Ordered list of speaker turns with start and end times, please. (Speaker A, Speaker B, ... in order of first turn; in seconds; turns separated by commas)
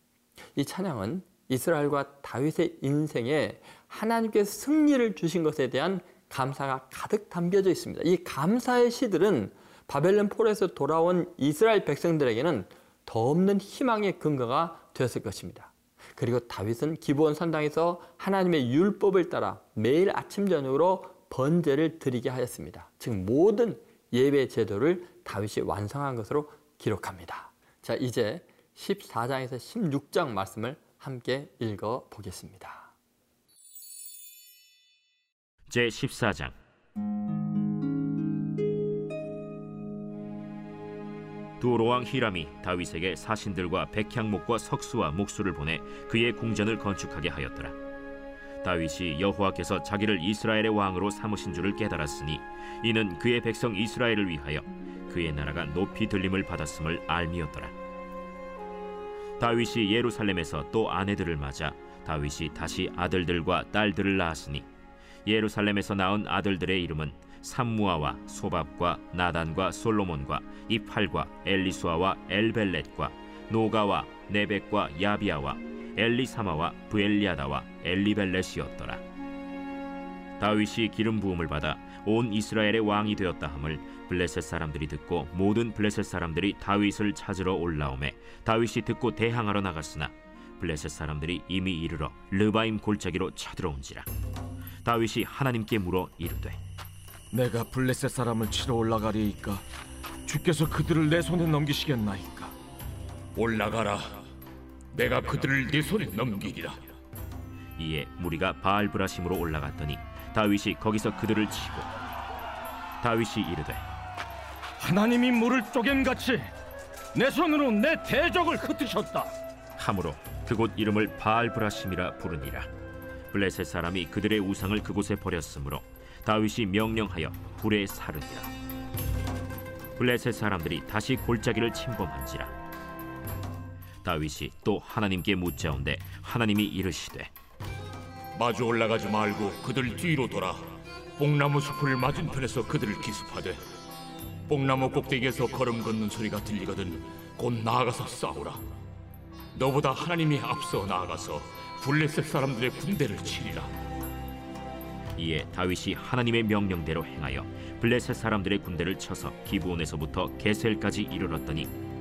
Speaker A: 0.6-32.9, Speaker B: 35.7-36.6, Speaker B: 41.6-47.8, Speaker B: 48.6-57.8, Speaker B: 59.4-64.7, Speaker B: 65.2-79.0, Speaker B: 80.4-94.1, Speaker B: 94.8-96.6, Speaker C: 97.3-99.6, Speaker C: 100.2-102.5, Speaker D: 103.4-104.2, Speaker D: 104.9-106.9, Speaker B: 107.8-111.9, Speaker B: 113.0-113.8, Speaker C: 114.8-116.5, Speaker C: 117.2-119.3, Speaker B: 119.8-122.7, Speaker B: 123.3-128.5, Speaker B: 130.0-132.6, Speaker B: 134.0-137.3, Speaker D: 138.3-143.6, Speaker D: 144.5-148.6, Speaker D: 149.6-153.7, Speaker B: 155.2-161.7